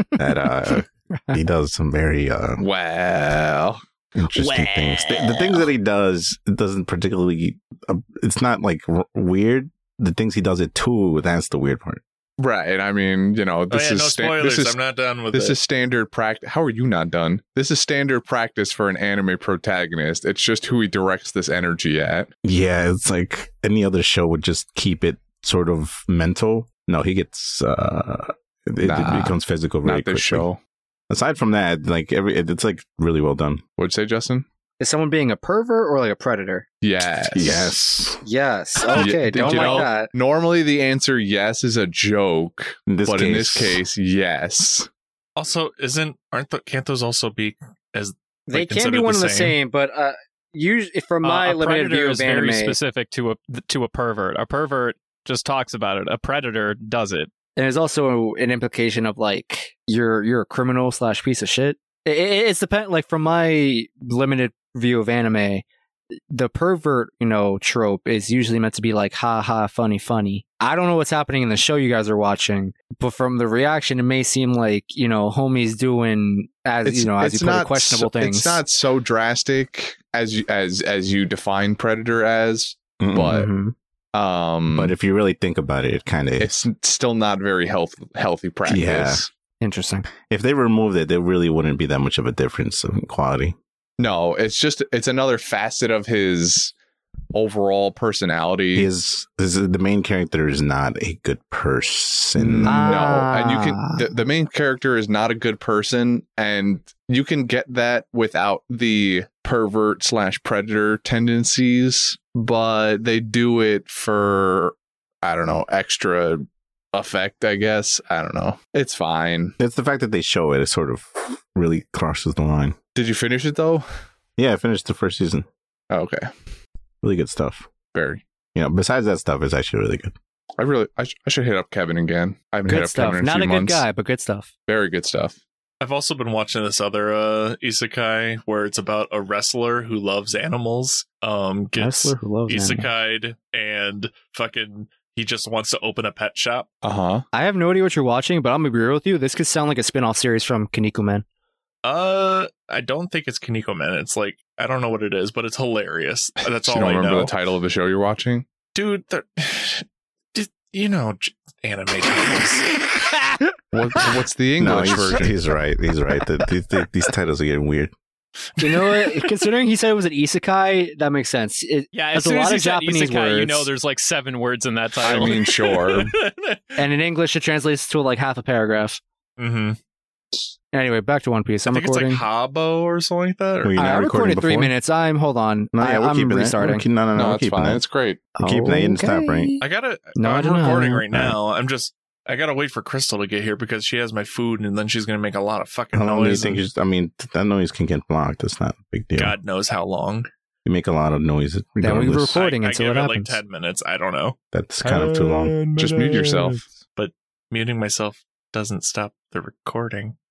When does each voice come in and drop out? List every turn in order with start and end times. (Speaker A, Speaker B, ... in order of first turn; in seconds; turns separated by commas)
Speaker A: 0.2-2.6, Speaker B: 2.6-3.8, Speaker A: 4.1-12.0, Speaker C: 4.3-5.7, Speaker B: 12.4-14.8, Speaker D: 13.7-15.6, Speaker B: 15.3-22.3, Speaker A: 22.4-30.5, Speaker B: 28.8-30.6, Speaker A: 31.1-33.6, Speaker B: 33.8-34.5, Speaker E: 34.8-36.6, Speaker B: 36.8-37.7, Speaker A: 37.3-38.2, Speaker E: 38.2-40.1, Speaker C: 38.8-39.8, Speaker B: 38.9-44.9, Speaker A: 42.9-43.8, Speaker D: 45.4-49.6, Speaker E: 48.5-52.8, Speaker C: 51.2-57.3, Speaker E: 57.5-65.6, Speaker E: 66.3-78.6, Speaker B: 76.8-83.5, Speaker A: 83.0-83.4, Speaker E: 83.3-83.7, Speaker B: 84.1-84.9, Speaker A: 84.7-86.6, Speaker B: 86.4-89.3, Speaker A: 88.7-89.2, Speaker E: 89.6-90.0, Speaker A: 90.2-93.5, Speaker B: 94.0-96.7, Speaker B: 97.3-98.9, Speaker A: 98.7-103.0, Speaker B: 102.4-119.5, Speaker E: 102.6-104.0, Speaker A: 119.6-122.8, Speaker B: 122.9-123.8, Speaker A: 124.4-125.5, Speaker B: 125.9-126.3, Speaker A: 127.0-127.7, Speaker B: 127.9-128.2, Speaker A: 128.5-130.1, Speaker B: 130.6-133.8, Speaker E: 132.7-134.5, Speaker B: 134.7-135.4, Speaker D: 135.8-146.7, Speaker E: 141.8-142.9, Speaker B: 146.8-147.2, Speaker E: 147.3-151.2, Speaker D: 151.8-157.4, Speaker B: 156.6-158.5, Speaker D: 158.7-163.1, Speaker B: 163.7-165.3, Speaker A: 164.6-167.9, Speaker D: 168.6-169.3, Speaker E: 168.6-173.7, Speaker C: 171.9-175.4, Speaker D: 175.0-176.8, Speaker B: 175.0-176.1, Speaker E: 176.8-179.0, Speaker D: 179.4-179.8, Speaker E: 180.7-182.2, Speaker D: 181.7-183.8, Speaker A: 183.6-184.7, Speaker E: 183.8-186.8, Speaker A: 185.7-187.8, Speaker B: 187.1-188.2, Speaker E: 188.3-191.1, Speaker A: 188.4-189.6, Speaker D: 189.6-196.6, Speaker A: 191.1-191.4, Speaker A: 195.9-199.4, Speaker D: 199.2-200.3, Speaker A: 200.6-202.4, Speaker E: 201.8-203.4, Speaker D: 202.3-210.2, Speaker A: 204.5-205.6, Speaker B: 205.8-206.7